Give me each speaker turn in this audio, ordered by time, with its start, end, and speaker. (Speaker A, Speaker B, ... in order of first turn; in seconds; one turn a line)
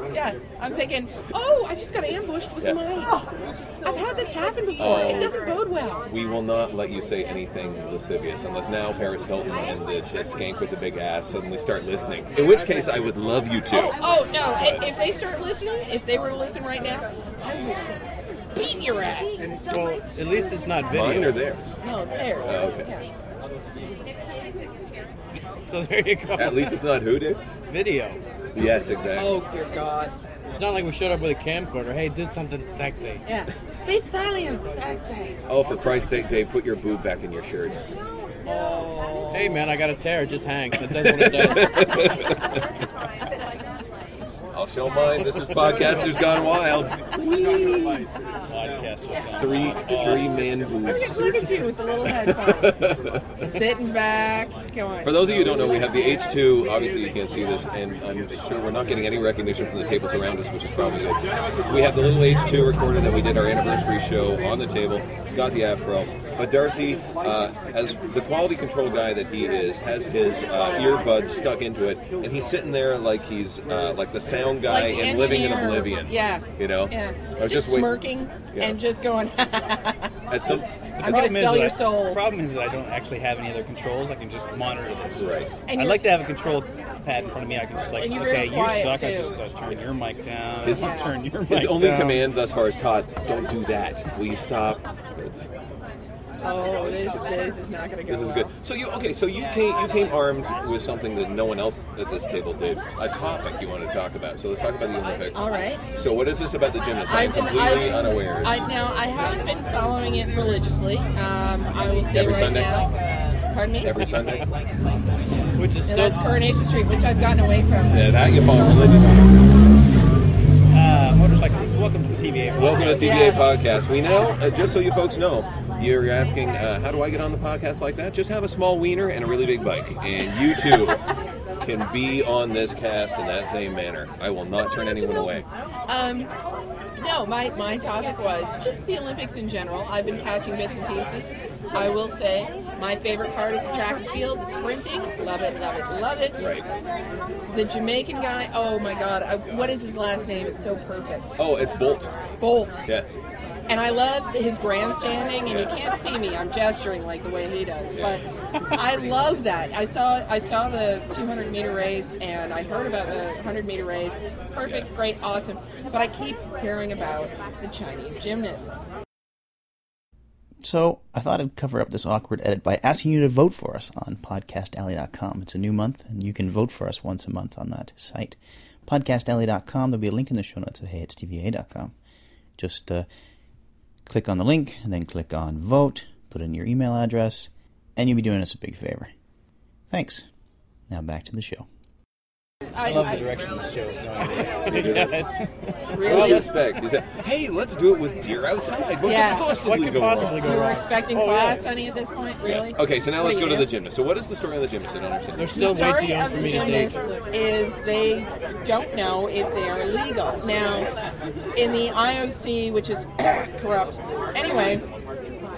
Speaker A: 0.1-3.3
Speaker A: 3.8-6.1
Speaker B: 4.8-5.4
Speaker B: 6.1-14.0
Speaker A: 13.7-18.0
Speaker B: 14.6-14.9
Speaker A: 18.5-19.5
Speaker C: 19.7-21.4
Speaker B: 20.9-21.7
Speaker A: 21.8-23.0
Speaker B: 22.4-22.9
Speaker C: 25.7-26.8
Speaker B: 26.4-27.4
Speaker C: 27.7-28.2
Speaker B: 28.5-29.4
Speaker A: 29.2-30.1
Speaker C: 30.5-33.2
Speaker A: 33.2-35.3
Speaker B: 35.5-37.8
Speaker A: 38.5-39.6
Speaker C: 39.3-41.9
Speaker B: 40.9-42.4
Speaker B: 44.5-48.0
Speaker D: 48.5-50.3
Speaker B: 49.4-51.5
Speaker A: 50.9-52.9
Speaker B: 52.1-53.2
Speaker A: 53.4-56.2
Speaker B: 55.0-78.0
Speaker A: 70.6-70.9
Speaker A: 74.7-80.1
Speaker B: 78.5-78.8
Speaker B: 80.3-81.4
Speaker D: 81.0-92.1
Speaker A: 81.0-82.3
Speaker B: 85.2-85.5
Speaker A: 85.7-86.1
Speaker A: 88.0-89.3
Speaker B: 90.6-95.5
Speaker A: 90.7-91.1
Speaker C: 91.8-92.2
Speaker A: 96.4-98.5
Speaker B: 98.1-108.7
Speaker A: 105.3-105.8
Speaker A: 107.1-112.9
Speaker B: 112.1-112.7
Speaker A: 113.5-114.1
Speaker B: 113.8-114.5
Speaker C: 115.6-116.3
Speaker A: 115.9-118.1
Speaker B: 117.9-119.3
Speaker D: 120.7-123.2
Speaker B: 122.5-131.0
Speaker A: 122.9-123.5
Speaker B: 131.6-135.5
Speaker A: 134.6-136.3
Speaker A: 137.0-146.4
Speaker B: 146.4-146.7
Speaker A: 147.5-151.4
Speaker B: 151.4-152.1
Speaker A: 152.4-152.8
Speaker A: 153.7-168.8
Speaker B: 155.5-155.7
Speaker B: 157.9-158.2
Speaker E: 170.6-181.9
Speaker E: 182.6-183.1
Speaker E: 184.1-189.1
Speaker E: 189.9-190.3
Speaker E: 190.9-191.7
Speaker A: 192.8-193.3
Speaker D: 192.8-195.5
Speaker C: 194.5-195.5
Speaker B: 194.7-195.2
Speaker A: 195.9-196.6
Speaker C: 196.0-196.5
Speaker B: 196.0-200.6
Speaker A: 199.0-199.5
Speaker C: 199.6-201.6
Speaker A: 200.4-203.7
Speaker B: 202.4-205.7
Speaker C: 205.4-207.1
Speaker A: 205.6-210.9
Speaker A: 211.6-214.8